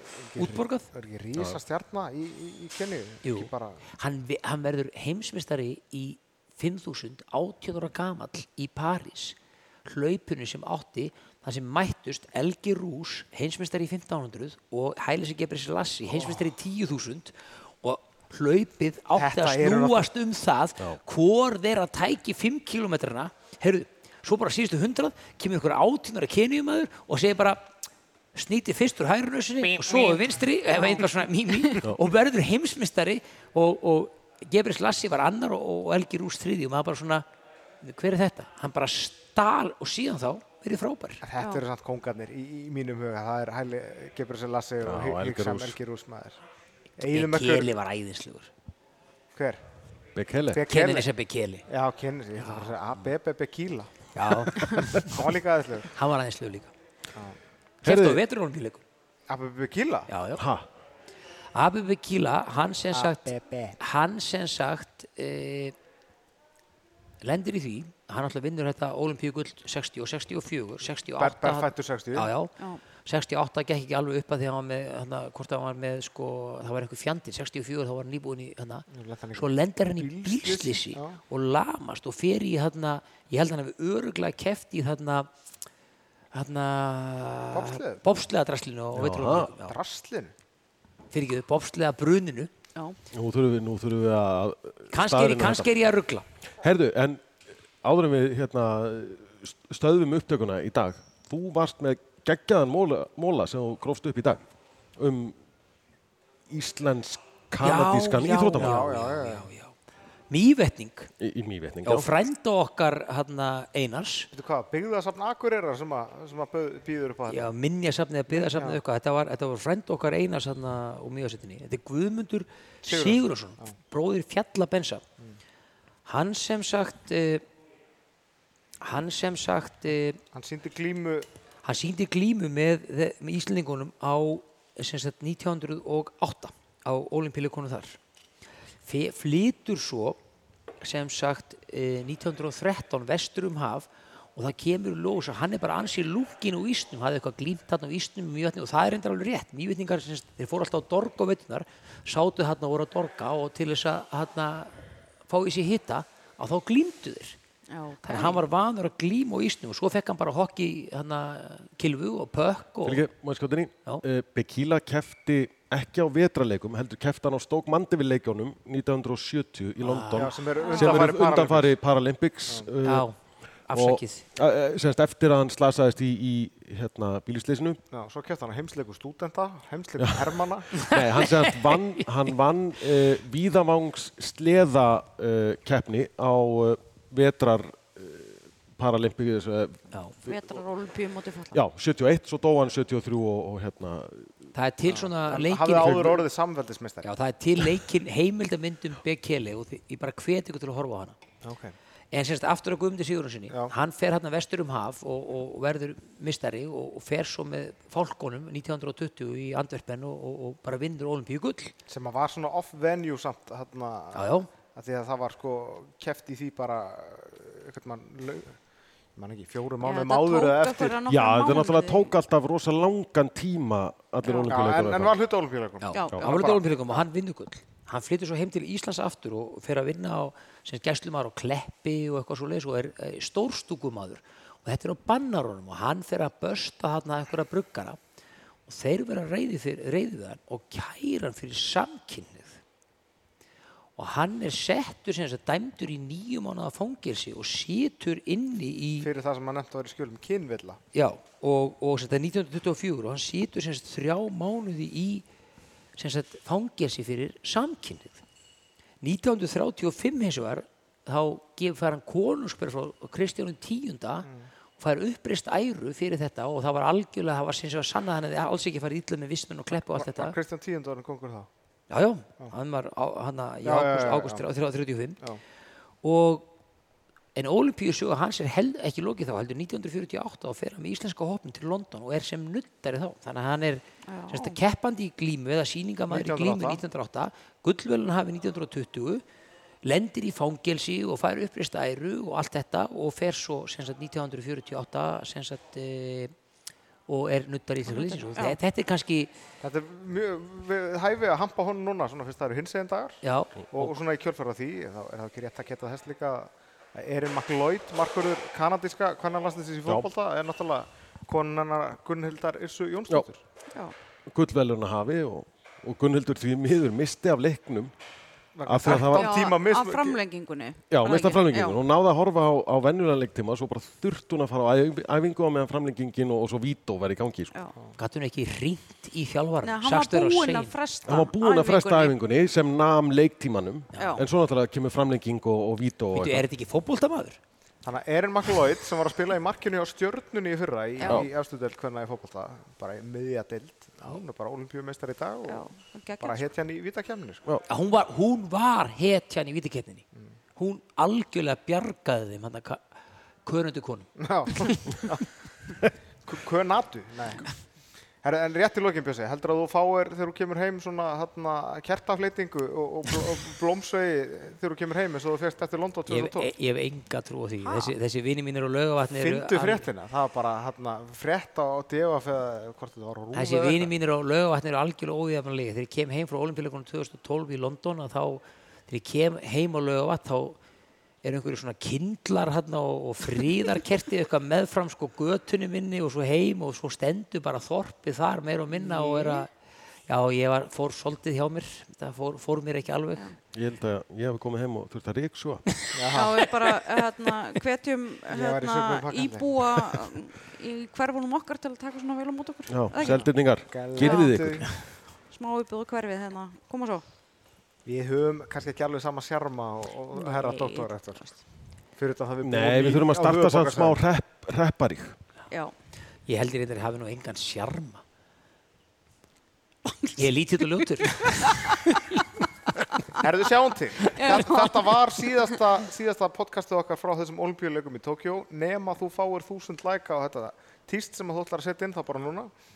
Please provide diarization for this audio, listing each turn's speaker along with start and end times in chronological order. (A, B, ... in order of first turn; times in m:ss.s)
0:00.3-0:03.8 A
0:00.3-0:00.9 B
0:03.2-0:27.7 B
0:16.1-0:16.4 A
0:19.1-0:20.1 A
0:28.3-0:37.2 B
0:29.8-0:30.2 C
0:30.7-0:31.0 C
0:37.8-0:41.2 B
0:41.2-0:46.4 A
0:44.8-0:45.8 D
0:47.0-0:47.7 A
0:47.0-0:48.5 B
0:49.3-0:49.6 A
0:50.1-0:50.6 D
0:50.5-0:51.1 A
0:50.7-0:51.6 B
0:51.7-0:55.9 A
0:52.4-0:52.8 B
0:54.1-0:55.2 B
0:55.9-0:56.7 B
0:57.8-0:58.8 B
0:57.8-0:58.2 D
0:59.3-1:00.1 A
1:00.1-1:00.4 B
1:00.4-1:00.7 D
1:01.5-1:05.7 B
1:02.9-1:03.8 A
1:07.2-1:12.5 B
1:11.2-1:12.3 A
1:13.0-1:25.3 B
1:18.9-1:21.2 A
1:26.3-1:29.8 B
1:27.5-1:28.0 A
1:28.9-1:29.5 D
1:29.5-1:30.3 A
1:31.1-1:32.5 B
1:33.1-1:35.7 D
1:34.9-1:36.2 B
1:36.6-1:37.2 D
1:37.8-1:44.4 D
1:45.0-1:45.4 D
1:46.5-1:49.0 D
1:47.6-1:49.7 B
1:48.4-1:49.5 A
1:50.3-1:51.1 B
1:51.2-1:52.1 D
1:51.8-1:54.3 B
1:54.3-1:57.5 A
1:57.3-2:05.0 B
1:58.3-1:58.8 A
2:02.8-2:03.7 A
2:06.0-2:07.4 B
2:08.8-2:10.2 B
2:10.3-2:11.3 A
2:11.6-2:18.0 B
2:18.8-2:20.2 B
2:20.8-2:34.8 B
2:35.3-2:37.4 B
2:37.7-2:38.4 C
2:38.0-2:43.0 B
2:42.8-2:53.1 D
2:49.8-2:50.3 B
2:50.1-2:51.7 A
2:50.6-2:51.1 C
2:52.8-2:53.1 B
2:53.7-2:54.2 B
2:53.7-2:57.8 D
2:57.9-3:00.7 A
3:00.0-3:00.3 D
3:00.7-3:02.0 B
3:00.8-3:10.3 D
3:10.2-3:11.6 C
3:11.5-3:14.3 D
3:14.5-3:16.3 B
3:14.8-3:17.1 A
3:17.0-3:21.2 B
3:21.4-3:21.8 A
3:22.1-3:31.7 B
3:31.9-3:38.6 A
3:34.1-3:34.5 B
3:39.2-3:41.0 A
3:39.8-3:42.1 C
3:41.1-3:45.1 D
3:44.2-3:44.6 C
3:44.4-3:47.0 A
3:45.8-3:58.0 B
3:45.9-3:46.2 C
3:58.7-4:02.6 B
4:04.0-4:09.1 B
4:09.0-4:10.8 A
4:10.9-4:15.2 B
4:16.0-4:18.2 B
4:19.0-4:30.4 B
4:29.9-4:31.5 A
4:31.9-4:35.2 B
4:33.6-4:34.4 A
4:36.0-4:36.5 B
4:37.3-4:49.2 B
4:44.1-4:44.6 C
4:46.1-4:46.8 A
4:49.8-4:56.3 B
4:57.1-4:59.3 B
4:57.9-4:58.6 C
4:59.6-5:13.4 A
5:03.2-5:03.9 B
5:14.3-5:17.9 D
5:18.5-5:20.2 A
5:18.6-5:19.4 D
5:18.8-5:21.8 C
5:20.9-5:27.5 D
5:28.0-5:30.7 B
5:29.6-5:32.1 C
5:31.0-5:36.4 D
5:33.9-5:34.2 C
5:36.1-5:37.4 B
5:37.8-5:45.6 A
5:41.0-5:41.3 C
5:41.0-5:41.3 D
5:45.4-5:46.5 C
5:46.2-5:47.4 A
5:47.6-5:50.0 B
5:50.6-5:52.8 B
5:53.4-5:54.1 B
5:54.2-5:55.2 A
5:56.2-5:57.5 A
5:58.2-6:06.5 A
6:06.1-6:09.9 B
6:07.6-6:07.9 C
6:09.2-6:13.9 A
6:13.3-6:20.6 B
6:21.2-6:29.5 B
6:28.7-6:29.4 A
6:30.1-6:33.3 B
6:33.5-6:35.6 D
6:35.9-6:36.4 A
6:36.1-6:43.3 C
6:38.3-6:39.8 A
6:42.7-6:44.7 D
6:43.7-6:44.7 A
6:44.0-6:44.8 C
6:45.3-6:47.0 C
6:47.8-6:51.2 A
6:50.1-6:51.3 C
6:52.0-6:54.0 A
6:52.4-6:55.1 D
6:56.3-6:58.0 B
6:59.8-7:00.2 C
7:00.1-7:02.2 B
7:01.0-7:01.8 C
7:03.2-7:12.5 A
7:04.0-7:05.0 C